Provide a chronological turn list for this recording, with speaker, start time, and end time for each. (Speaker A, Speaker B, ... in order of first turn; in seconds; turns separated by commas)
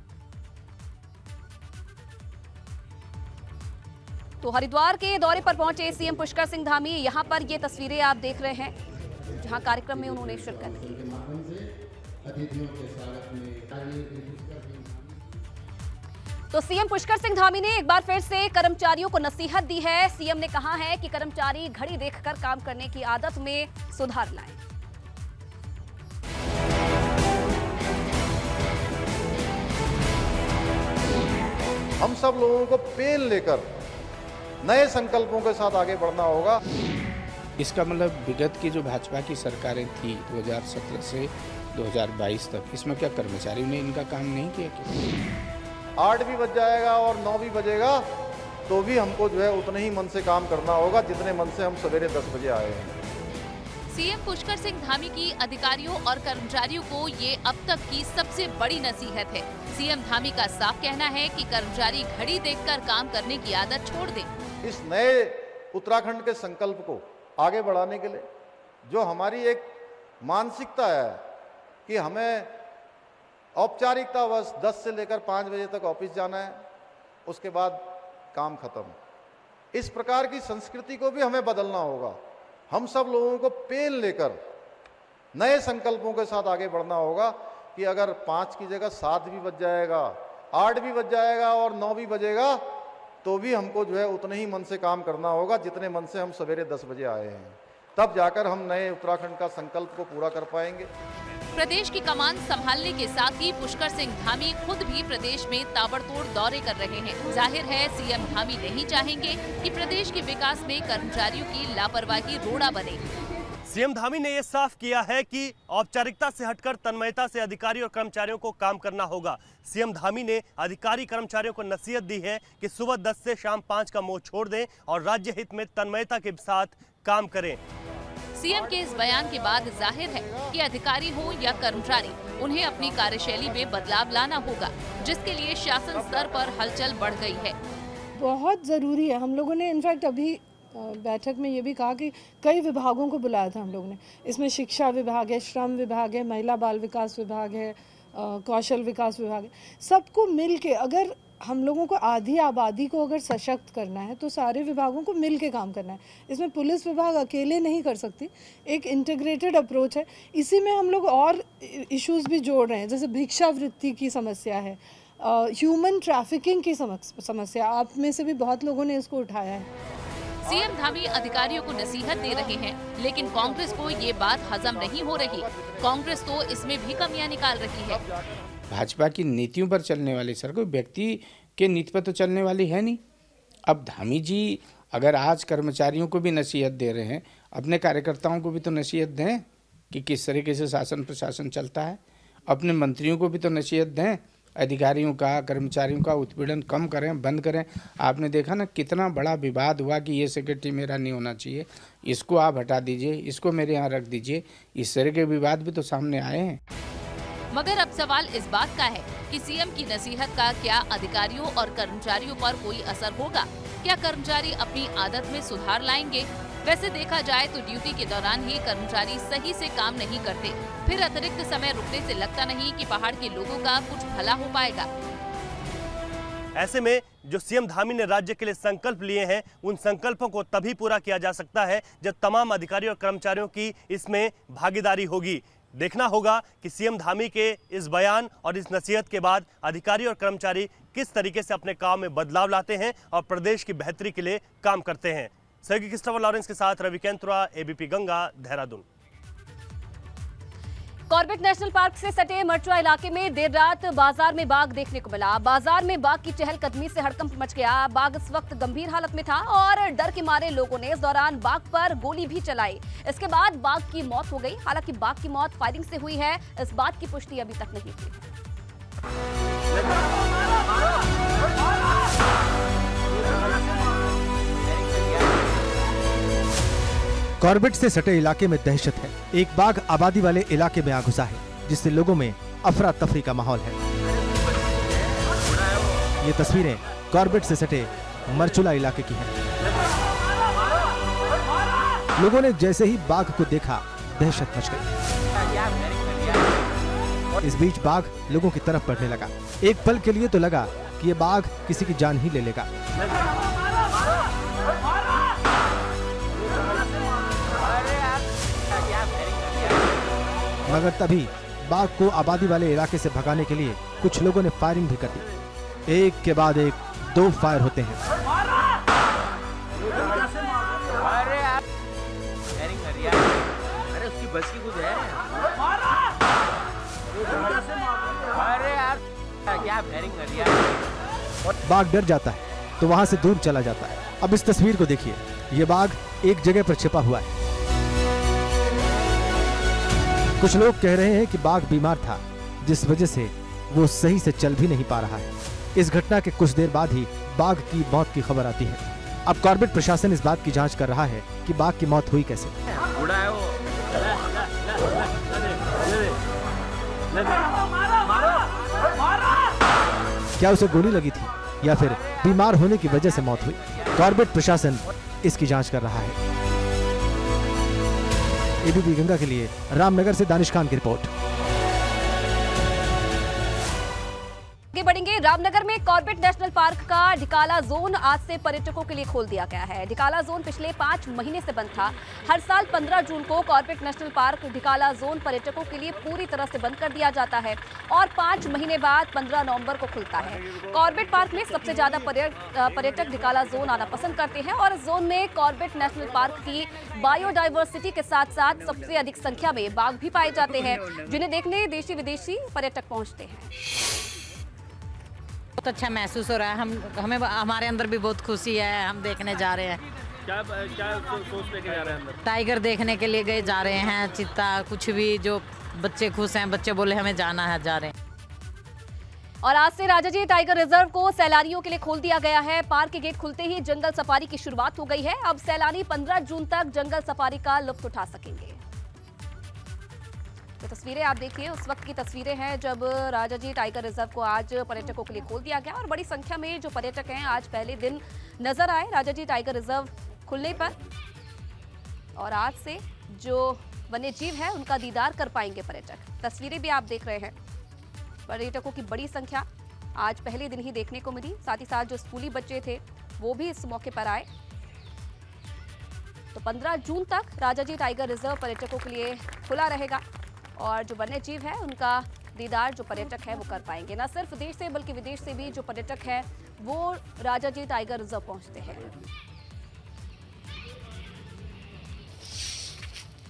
Speaker A: 4.4-8.7, Speaker A: 9.3-10.9, Speaker A: 16.5-24.6, Speaker B: 32.0-33.7, Speaker B: 34.6-36.6, Speaker C: 37.6-45.0, Speaker B: 46.0-48.0, Speaker B: 48.7-52.9, Speaker D: 53.9-64.3, Speaker B: 64.6-68.2, Speaker B: 68.8-71.2, Speaker B: 71.9-72.5, Speaker B: 73.5-76.6, Speaker B: 77.2-79.0, Speaker B: 79.7-82.2, Speaker B: 82.7-84.4, Speaker B: 85.3-92.6, Speaker B: 93.2-100.9, Speaker D: 101.5-113.1, Speaker E: 113.6-127.6, Speaker D: 128.3-137.6, Speaker F: 138.2-169.7, Speaker D: 170.4-178.0, Speaker C: 178.7-183.0, Speaker C: 183.7-206.6, Speaker D: 207.5-224.9, Speaker E: 226.5-248.8, Speaker A: 251.1-268.3, Speaker G: 277.4-283.8, Speaker G: 286.2-289.3, Speaker G: 292.2-294.8, Speaker G: 297.4-302.7, Speaker G: 310.7-315.3, Speaker G: 315.9-318.0, Speaker G: 331.6-337.3, Speaker G: 340.4-352.5, Speaker G: 360.4-366.1, Speaker G: 368.6-371.1, Speaker A: 374.7-403.5, Speaker H: 405.6-409.8, Speaker I: 410.3-412.2, Speaker H: 412.2-417.9, Speaker A: 419.4-428.6, Speaker A: 430.6-440.8, Speaker A: 442.1-447.3, Speaker A: 448.3-449.4, Speaker A: 450.0-454.3, Speaker A: 456.3-460.0, Speaker A: 460.6-468.9